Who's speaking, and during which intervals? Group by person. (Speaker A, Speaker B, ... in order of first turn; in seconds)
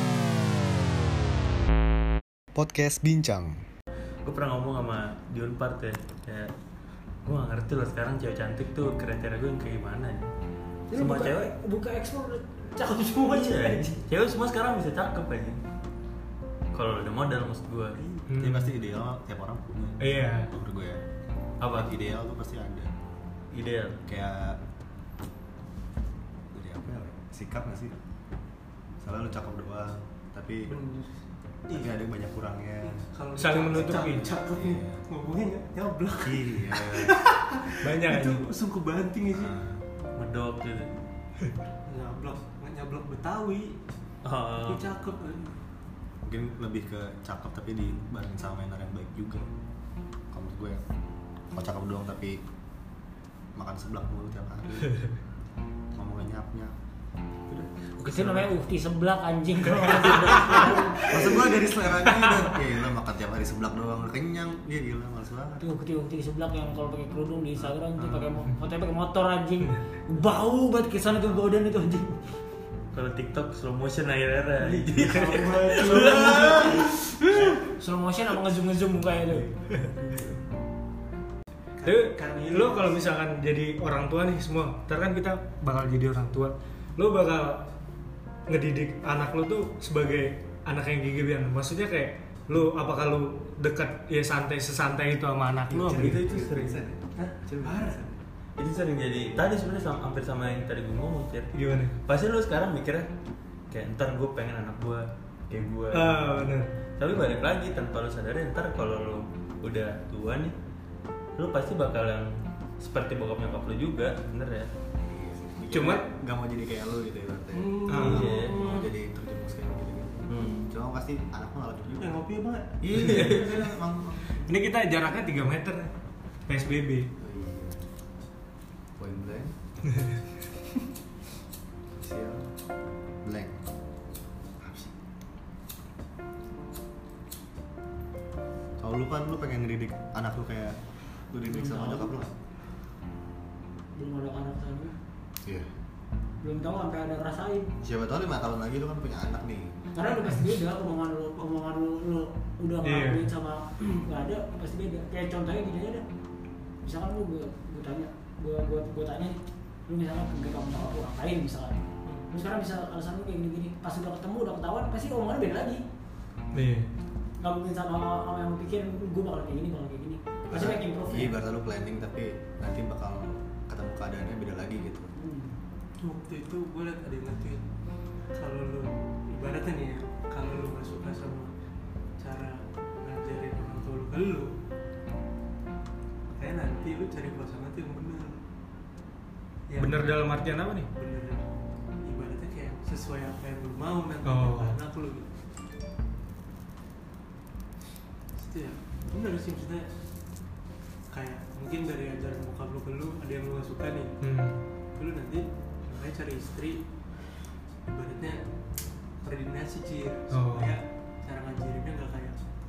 Speaker A: 2.5-3.6, 18.4-21.0, 21.7-22.9, 24.1-24.6, 26.5-27.9, 29.0-30.7, 31.7-33.0, 33.7-35.0, 36.2-37.2, 39.3-39.8, 46.2-49.5, 50.3-50.8, 51.5-52.4, 53.5-55.0, 55.9-56.7, 57.5-58.5, 60.6-65.6, 95.7-98.2, 115.0-122.2, 122.8-124.4, 127.2-127.8, 129.0-129.5, 131.9-132.5, 133.2-133.7, 134.6-134.9, 138.8-140.8, 141.3-142.3, 145.4-145.7, 147.8-149.8, 170.4-175.1
Speaker B: 4.2-6.5, 7.2-10.3, 10.9-11.5, 13.3-15.6, 16.7-18.0, 21.6-21.9, 23.5-24.0, 40.1-41.0, 44.2-44.9, 72.9-76.9, 95.9-96.8, 98.6-103.1, 103.7-106.5, 107.0-110.5, 111.4-114.7, 117.9-118.7, 120.3-120.7
Speaker C: 10.9-14.0, 58.0-61.2, 65.6-72.3, 77.6-79.6, 141.5-142.1, 143.9-144.9, 146.4-147.7, 149.9-156.0, 156.8-165.8, 167.4-171.3, 175.1-175.6
Speaker D: 18.3-18.6, 20.0-20.5, 33.4-34.3, 37.8-38.5, 81.8-87.7, 88.5-96.2, 101.5-102.0, 105.9-106.7, 115.7-116.1, 117.9-118.3, 124.4-125.9, 126.5-127.1, 152.8-153.3, 166.5-166.9, 189.8-190.9, 194.2-194.8, 204.2-204.6, 210.3-210.8
Speaker E: 30.7-31.9, 32.8-39.5, 41.9-43.8, 44.6-45.6, 74.6-77.5, 81.8-83.0, 97.2-98.0, 117.5-118.9, 122.0-123.7, 176.0-177.6, 178.3-181.5, 182.2-184.5, 186.3-188.4, 189.7-191.4, 192.0-195.3, 198.4-199.9, 201.1-204.1, 204.9-206.8, 207.8-208.4, 209.2-212.4